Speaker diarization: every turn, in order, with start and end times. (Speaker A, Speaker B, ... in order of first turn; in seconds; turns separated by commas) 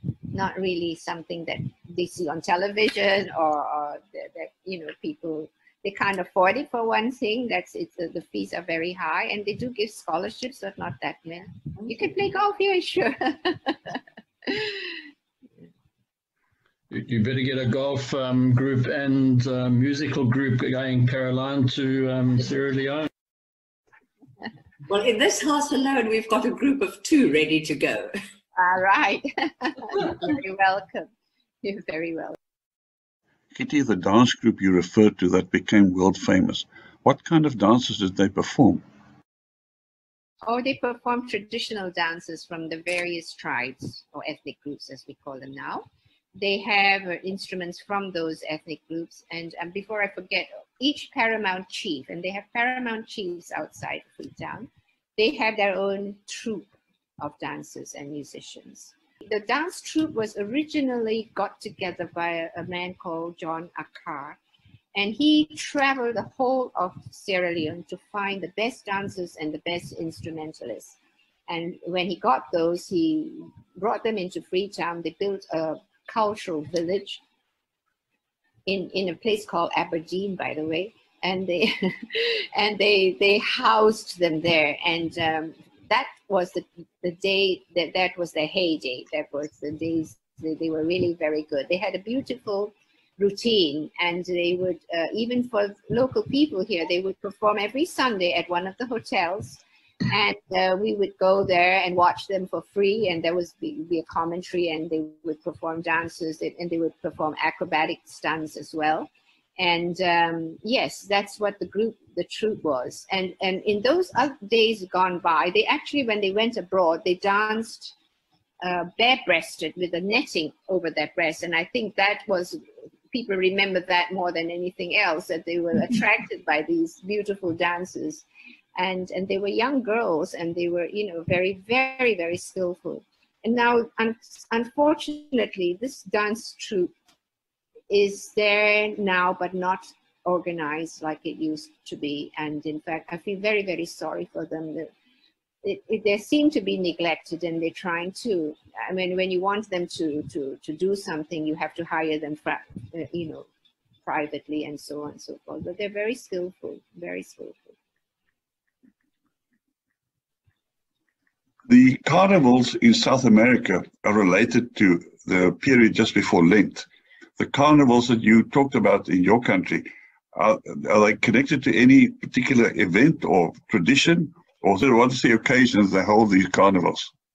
Speaker A: 0.3-14.9, Speaker B: 16.9-23.1, Speaker C: 24.9-28.1, Speaker A: 28.6-31.1, Speaker A: 31.6-32.4, Speaker D: 33.5-38.8, Speaker A: 40.5-45.9, Speaker A: 46.4-64.4, Speaker A: 64.9-71.0, Speaker A: 71.5-77.2, Speaker A: 78.7-117.9, Speaker A: 118.6-128.2, Speaker A: 128.8-136.9, Speaker A: 137.9-144.9, Speaker A: 145.6-153.5, Speaker A: 154.0-157.7, Speaker D: 161.7-177.1